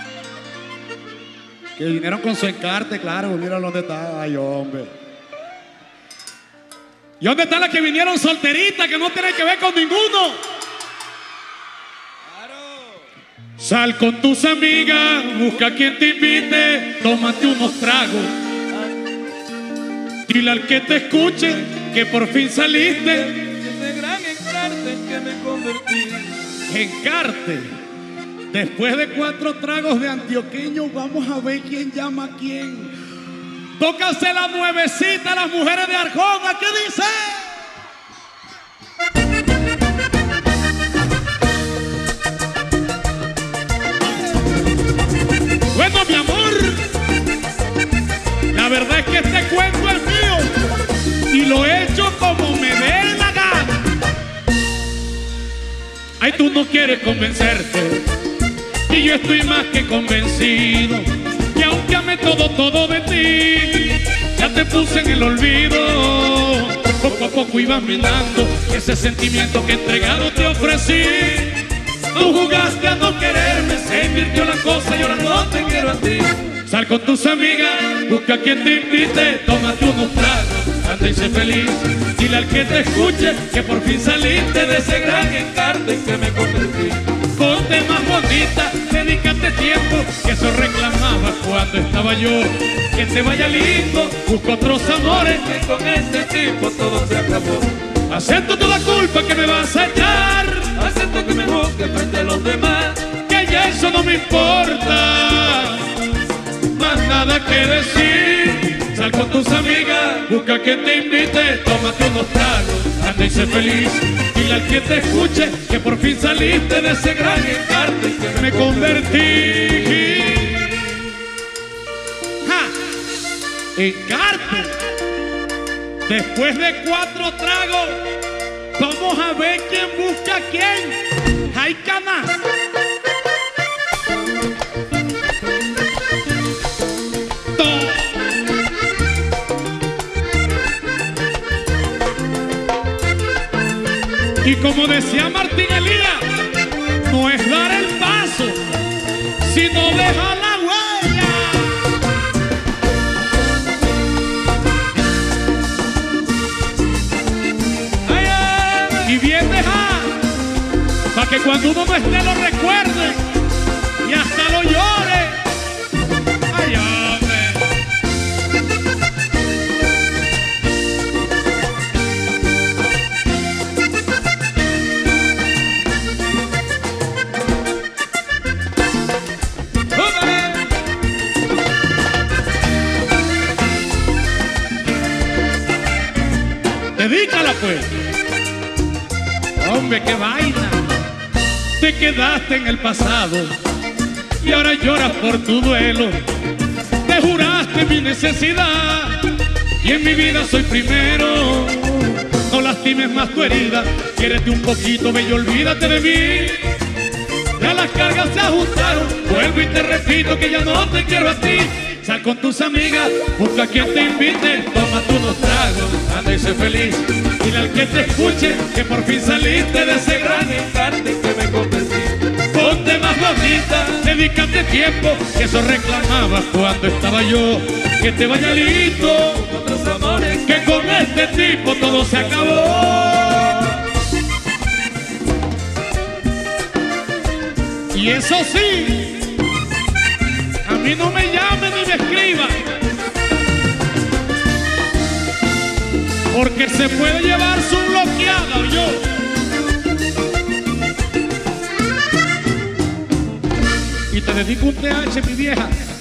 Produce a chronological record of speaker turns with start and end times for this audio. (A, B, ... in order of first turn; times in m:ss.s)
0:01.8-0:04.9 A
0:07.2-0:10.4 A
0:13.6-0:18.4 A
0:20.3-0:23.6 A
0:23.4-0:26.5 B
0:26.7-0:27.7 A
0:28.5-0:33.0 A
0:33.8-0:37.7 A
0:45.7-0:46.9 A
0:48.5-0:50.5 A
0:51.3-0:53.9 A
0:56.2-0:58.1 A
0:58.9-1:25.7 A
1:15.7-1:16.3 B
1:25.4-1:27.0 B
1:27.3-1:35.6 A
1:35.3-1:37.8 B
1:38.1-1:40.9 A
1:40.8-1:43.0 B
1:43.0-1:46.0 A
1:46.7-2:01.2 A
1:58.5-1:58.7 B
2:02.4-2:02.8 A
2:03.8-2:04.8 A
2:06.1-2:08.0 A
2:08.8-2:11.0 A
2:11.5-2:12.4 A
2:17.6-2:18.2 A
2:24.4-2:26.3 A
2:27.0-2:28.7 A
2:29.4-2:32.0 A
2:38.1-2:39.0 B
2:38.9-2:40.2 A
2:41.1-2:43.2 A
2:44.0-2:45.4 A
2:46.5-2:47.7 A
3:07.0-3:07.9 A
3:09.6-3:10.8 A
3:11.8-3:13.6 A
3:14.4-3:16.2 A
3:17.0-3:26.7 A
3:27.6-3:40.8 A
3:40.6-3:42.3 B
3:42.5-3:49.7 A
3:49.5-3:50.5 B
3:50.2-3:53.8 A
3:57.9-3:59.2 A
4:00.6-4:02.6 A
4:06.3-4:09.2 A
4:14.1-4:15.7 A